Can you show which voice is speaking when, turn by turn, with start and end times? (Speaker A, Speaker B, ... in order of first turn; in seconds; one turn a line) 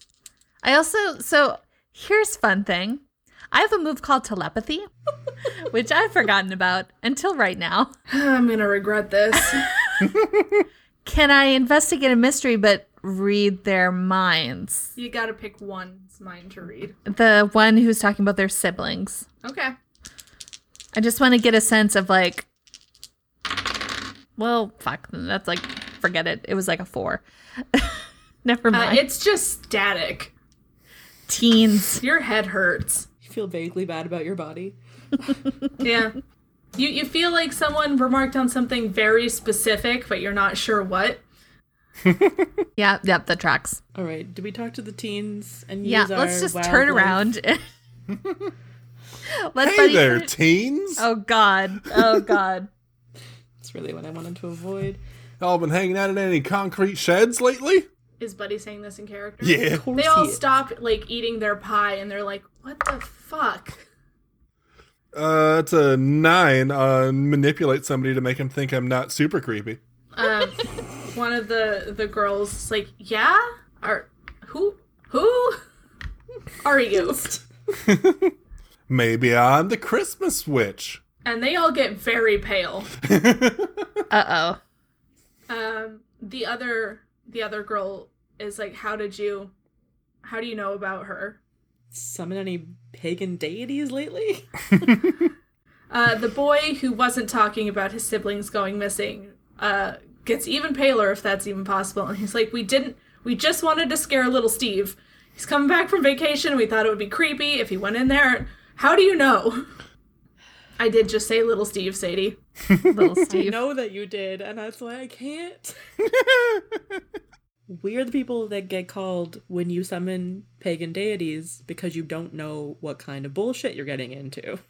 Speaker A: 0.6-4.9
Speaker A: 5.6-7.9
Speaker B: 8.1-9.8
Speaker A: 11.1-14.9
Speaker B: 15.0-17.0
Speaker A: 17.1-19.3
Speaker B: 19.4-19.7
Speaker A: 20.9-22.5
Speaker A: 24.4-29.1
Speaker B: 28.7-30.3
Speaker A: 31.3-32.0
Speaker B: 32.0-33.1
Speaker C: 33.2-34.8
Speaker B: 35.8-36.2
Speaker B: 36.8-41.2
Speaker D: 42.1-42.5
Speaker A: 42.8-43.8
Speaker C: 44.0-47.2
Speaker A: 45.8-47.6
Speaker A: 49.3-50.3
Speaker D: 49.6-51.1
Speaker A: 51.0-52.7
Speaker D: 51.9-52.2
Speaker C: 53.6-55.0
Speaker D: 55.4-57.9
Speaker B: 58.2-63.8
Speaker D: 59.4-59.9
Speaker C: 59.8-60.4
Speaker D: 65.1-69.8
Speaker B: 70.1-75.6
Speaker B: 76.6-77.4
Speaker D: 77.8-78.3
Speaker D: 78.9-81.0
Speaker B: 81.2-82.9
Speaker D: 83.1-83.9
Speaker A: 84.1-84.6
Speaker B: 85.5-89.5
Speaker B: 90.2-91.4
Speaker C: 91.9-94.5
Speaker B: 95.9-109.7
Speaker B: 110.8-112.4
Speaker A: 112.9-113.6
Speaker C: 113.3-115.8
Speaker D: 116.1-116.6
Speaker C: 117.7-124.6